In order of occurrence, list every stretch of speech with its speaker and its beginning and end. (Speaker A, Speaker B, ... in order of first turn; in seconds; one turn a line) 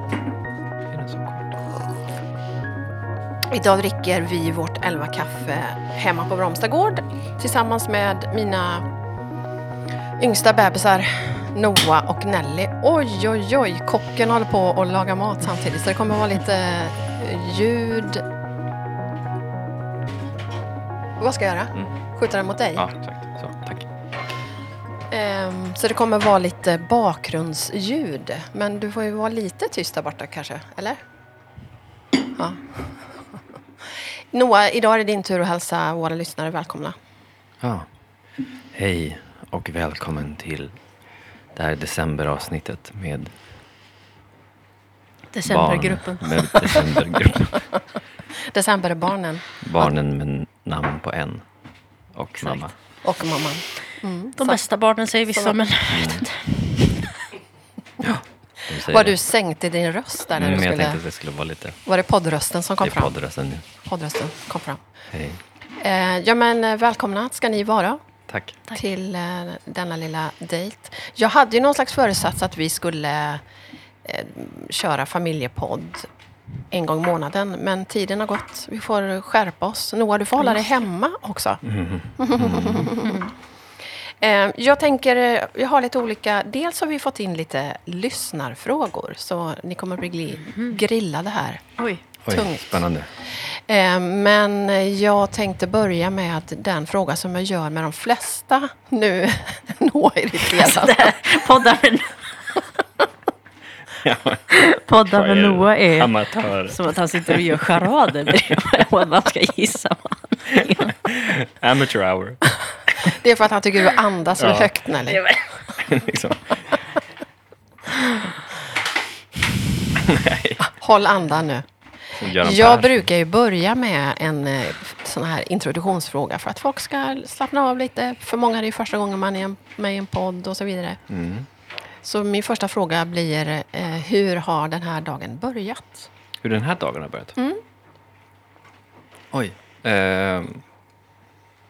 Speaker A: 0.9-1.6
Speaker B: 3.5-8.8
Speaker B: 10.2-18.2
Speaker B: 21.2-22.9
Speaker A: 22.8-23.9
Speaker B: 25.1-31.0
Speaker B: 32.4-32.9
Speaker B: 34.3-37.0
Speaker A: 37.6-37.9
Speaker A: 38.7-40.8
Speaker A: 41.5-43.3
Speaker C: 45.3-47.0
Speaker A: 45.5-47.6
Speaker B: 48.5-49.9
Speaker A: 49.6-51.5
Speaker A: 52.1-52.8
Speaker B: 53.0-54.6
Speaker C: 54.4-57.2
Speaker A: 55.9-56.3
Speaker A: 58.0-59.2
Speaker B: 58.6-61.0
Speaker A: 60.4-61.8
Speaker B: 61.9-63.1
Speaker A: 62.8-63.7
Speaker B: 63.8-64.8
Speaker A: 65.1-65.4
Speaker B: 65.8-68.0
Speaker A: 68.3-68.6
Speaker B: 68.7-73.4
Speaker B: 74.0-76.1
Speaker B: 76.7-81.6
Speaker C: 80.4-80.8
Speaker A: 81.6-82.9
Speaker B: 82.2-83.3
Speaker C: 83.0-83.3
Speaker B: 84.2-91.6
Speaker C: 90.5-90.8
Speaker C: 91.8-92.0
Speaker A: 92.2-93.1
Speaker B: 92.3-101.3
Speaker C: 100.4-102.6
Speaker A: 103.9-108.6
Speaker C: 104.5-106.2
Speaker C: 106.7-111.0
Speaker A: 110.5-112.4
Speaker B: 113.0-115.3
Speaker A: 114.4-114.8
Speaker A: 115.8-116.8
Speaker A: 120.0-120.7
Speaker B: 120.7-121.7
Speaker A: 122.2-123.1
Speaker B: 122.2-131.0
Speaker A: 131.1-131.5
Speaker B: 132.0-136.1
Speaker A: 136.4-137.4
Speaker A: 139.3-140.6